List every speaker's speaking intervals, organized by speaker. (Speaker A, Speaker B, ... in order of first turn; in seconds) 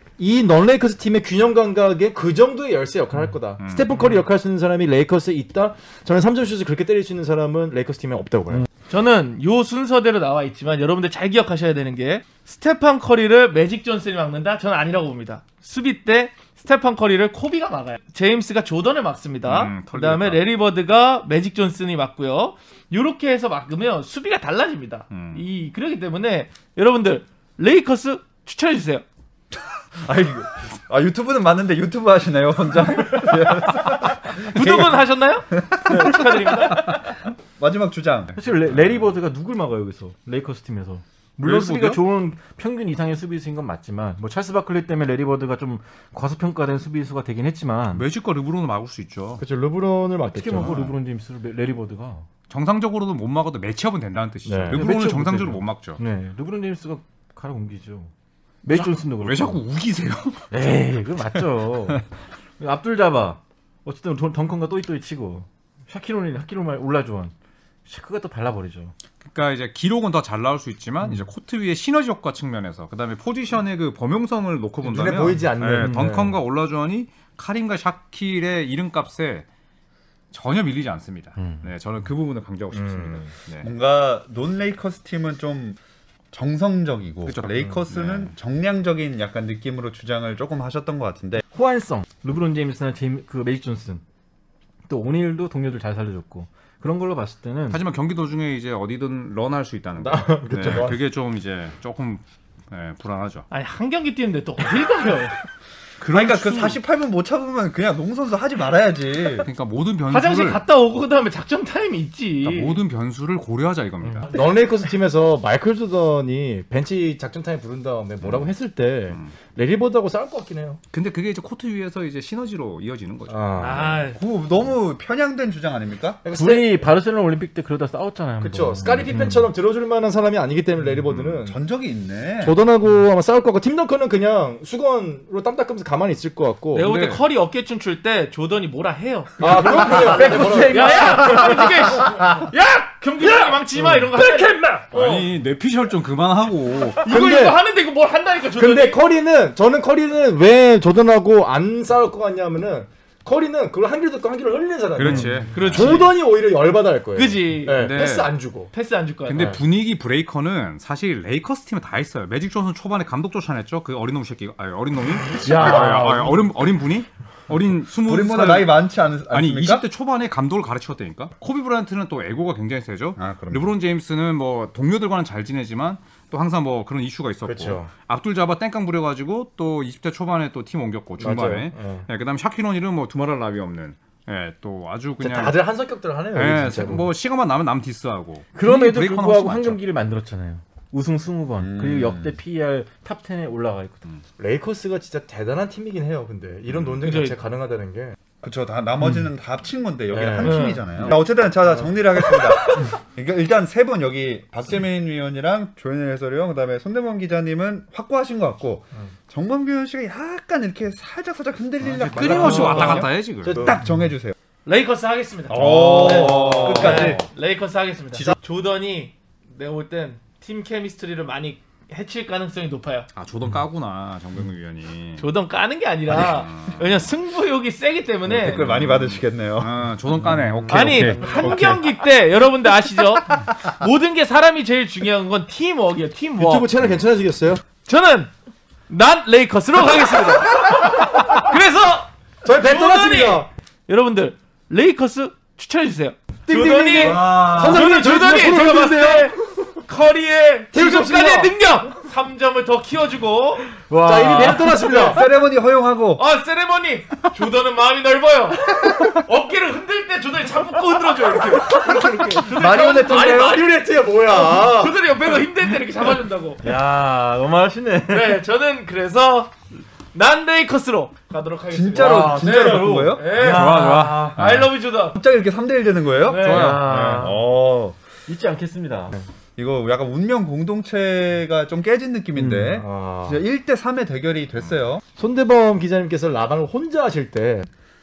Speaker A: 0.2-8.6, 49.4-50.8, 54.5-54.8, 74.8-76.4, 82.7-83.3, 100.0-101.0, 114.3-120.8, 123.3-124.1, 126.2-126.9, 128.4-131.6, 132.4-136.9, 139.4-141.5, 143.4-144.8, 147.1-147.6, 148.6-158.7, 165.4-166.4, 177.4-177.9, 181.2-182.1, 185.2-187.1, 194.4-198.2, 200.1-202.4, 212.1-213.8, 216.2-217.2, 236.4-237.6, 242.4-243.5, 246.5-249.3, 250.7-251.5, 254.0-255.2, 261.7-264.9, 272.0-274.2, 282.6-283.4, 285.1-287.7
Speaker B: 3.6-3.9, 19.4-20.4, 25.1-25.4, 38.5-39.0, 41.4-42.0, 47.9-49.4, 50.5-50.9, 52.5-56.0, 58.7-60.5, 69.2-79.5, 80.3-83.7, 87.2-88.3, 97.7-103.5, 106.0-106.8, 109.4-110.6, 112.4-114.3, 120.9-123.7, 136.8-137.2, 144.9-147.1, 154.9-156.1, 157.8-158.3, 159.2-185.6, 186.3-189.8, 211.8-213.7, 215.5-217.1, 223.1-225.2, 226.1-227.0, 228.5-231.8, 273.4-274.7, 276.3-277.3
Speaker C: 8.9-29.0, 34.5-36.9, 103.5-105.4, 110.1-112.8, 123.6-124.2, 136.7-145.3, 147.1-149.0, 155.4-156.1, 157.1-157.9, 158.7-159.6, 197.0-197.3, 200.4-200.8, 212.6-212.9, 214.7-223.1, 225.2-228.7, 230.7-236.7, 237.8-238.3, 238.9-254.5, 256.2-266.6, 268.1-269.6, 270.1-275.2, 276.2-276.9
Speaker D: 30.0-35.0, 35.6-36.9, 37.6-38.3, 83.6-85.8, 86.3-91.4, 106.1-109.5, 124.1-126.2, 131.4-132.6, 167.9-169.8, 173.2-173.7, 191.6-192.3, 198.4-214.3, 215.5-217.2, 228.3-229.7, 247.0-247.8, 254.5-256.2, 262.3-263.6, 271.7-273.3, 275.1-277.9, 279.6-285.0
Speaker E: 38.4-48.0, 50.3-52.3, 54.6-58.1, 58.6-59.6, 60.5-62.0, 62.6-67.3, 67.8-68.9, 75.8-76.3, 81.4-81.6, 91.5-94.0, 94.9-97.8, 126.3-129.5, 139.4-142.0, 188.5-194.1, 253.9-255.1, 261.9-262.2, 266.6-268.4, 273.5-274.3, 276.4-277.3, 278.3-279.2, 282.4-282.8